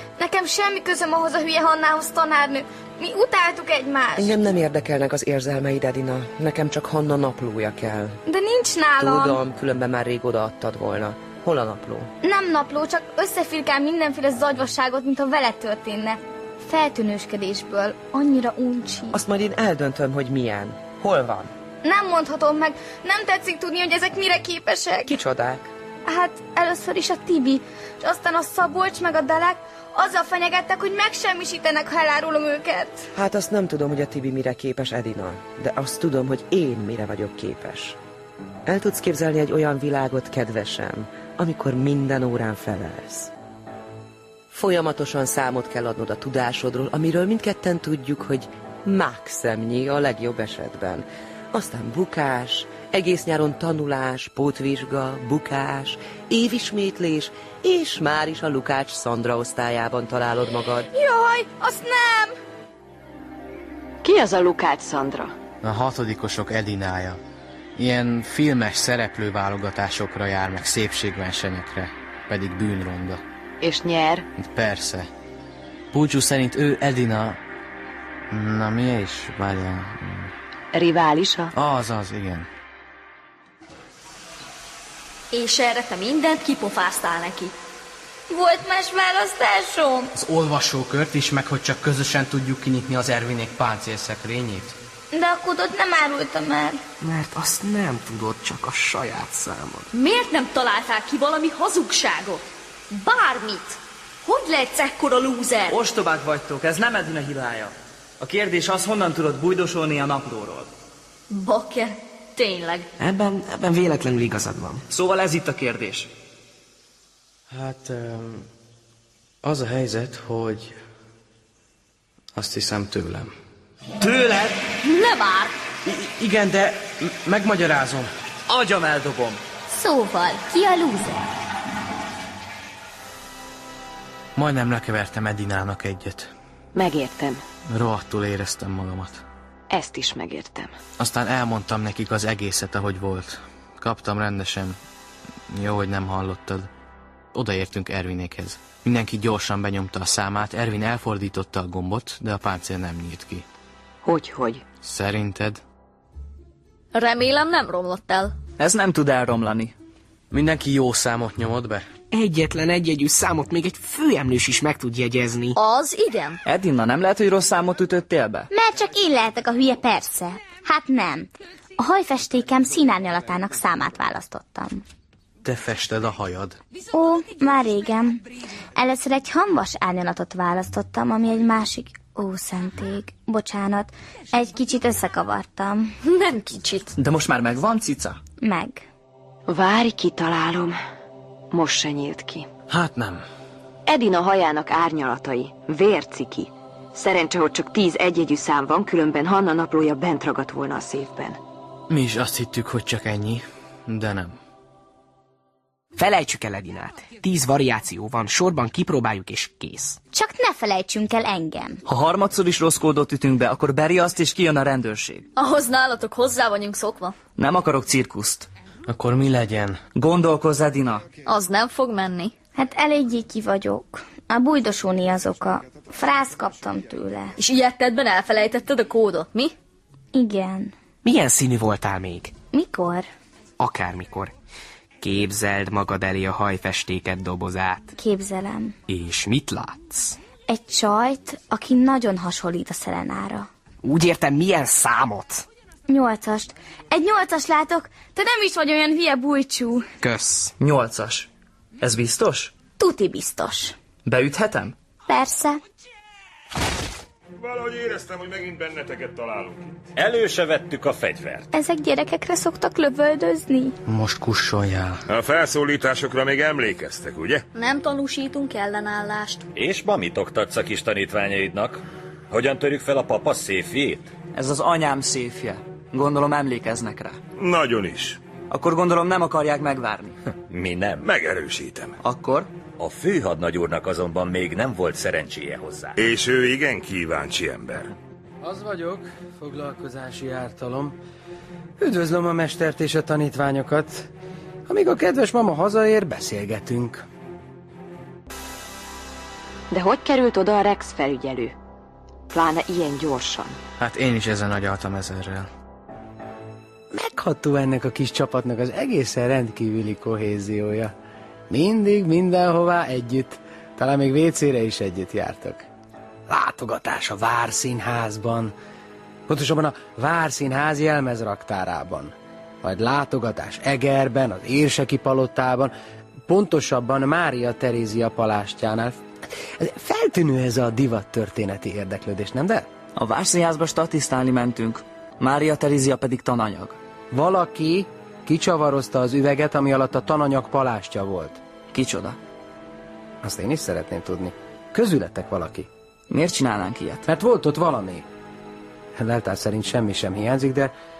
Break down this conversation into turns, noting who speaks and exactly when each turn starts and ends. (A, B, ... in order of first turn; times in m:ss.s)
0:00.2-0:04.3 A
0:04.2-0:08.2 B
0:08.3-0:09.4 A
0:09.0-0:12.1 B
0:12.2-0:19.2 A
0:19.1-0:21.5 B
0:21.8-0:25.1 A
0:25.1-0:25.7 B
0:26.0-0:33.1 A
0:33.1-0:38.0 B
0:38.6-0:43.3 B
0:44.5-1:00.9 B
1:00.9-1:02.4 A
1:04.0-1:05.3 C
1:05.6-1:07.2 D
1:07.8-1:13.2 D
1:13.6-1:14.2 C
1:14.4-1:15.1 D
1:15.9-1:17.4 D
1:18.3-1:20.3 D
1:20.7-1:21.5 C
1:21.5-1:22.5 D
1:25.3-1:27.5 E
1:28.3-1:30.1 A
1:35.1-1:36.8 A
1:37.0-1:39.9 F
1:39.9-1:45.7 E
1:45.7-1:50.7 G
1:51.3-1:52.9 E
1:53.0-1:54.8 F
1:54.9-1:56.1 G
1:57.5-1:58.4 D
1:59.4-2:00.8 D
2:02.3-2:03.3 D
2:04.0-2:04.6 G
2:04.8-2:05.5 E
2:08.5-2:09.4 G
2:09.7-2:11.2 A
2:14.4-2:16.3 D
2:16.7-2:17.4 C
2:17.7-2:19.2 D
2:19.7-2:20.7 C
2:21.0-2:24.8 D
2:25.5-2:26.7 D
2:27.3-2:33.4 D
2:34.0-2:34.6 C
2:34.8-2:35.6 D
2:36.9-2:38.4 E
2:38.6-2:39.7 G
2:40.3-2:41.9 D
2:42.1-2:45.6 F
2:45.6-2:46.4 E
2:46.4-2:48.5 G
2:48.5-2:54.8 A
2:55.4-2:56.6 D
2:56.9-2:58.2 A
2:58.8-3:05.9 A
3:06.0-3:06.9 E
3:07.0-3:08.2 G
3:08.4-3:08.8 A
3:09.5-3:10.8 C
3:11.5-3:12.5 C
3:12.7-3:13.2 D
3:13.8-3:21.4 C
3:21.9-3:24.4 D
3:26.0-3:30.0 F
3:30.1-3:31.8 A
3:31.8-3:35.3 G
3:35.4-3:37.2 E
3:37.3-3:38.5 G
3:38.9-3:39.8 D
3:40.0-3:41.1 G
3:41.2-3:42.3 E
3:42.5-3:47.3 A
3:47.4-3:49.5 E
3:50.1-3:50.7 A
3:51.0-3:52.4 F
3:52.5-3:53.1 A
3:53.6-3:54.3 F
3:55.0-3:57.9 F
3:58.0-3:58.8 A
3:58.9-4:00.2 F
4:00.5-4:03.5 A
4:03.8-4:05.4 F
4:05.9-4:09.9 A
4:10.0-4:10.5 F
4:10.6-4:11.3 G
4:11.8-4:12.5 G
4:12.8-4:13.7 A
4:14.0-4:14.8 G
4:15.1-4:15.6 A
4:17.4-4:19.8 H
4:20.0-4:21.5 I
4:21.5-4:23.8 A
4:23.9-4:25.0 D
4:25.1-4:27.4 H
4:27.5-4:29.4 E
4:29.5-4:34.1 I
4:34.3-4:37.2 G
4:37.4-4:38.2 H
4:38.5-4:40.2 G
4:40.5-4:41.1 I
4:41.0-4:42.0 H
4:42.0-4:42.5 G
4:42.8-4:46.0 I
4:46.0-4:47.9 H
4:48.4-4:51.0 J
4:51.8-4:54.1 J
4:54.7-4:57.0 J
4:59.7-5:01.5 C
5:02.3-5:03.6 C
5:03.8-5:05.5 D
5:06.9-5:10.9 J
5:11.5-5:15.6 J
5:16.3-5:18.5 J
5:19.3-5:25.7 J
5:26.3-5:29.0 J
5:29.6-5:32.7 J
5:33.0-5:36.8 G
5:37.1-5:41.4 J
5:41.7-5:42.2 G
5:43.2-5:45.7 J
5:46.1-5:47.0 G
5:47.0-5:48.0 J
5:49.0-5:50.7 J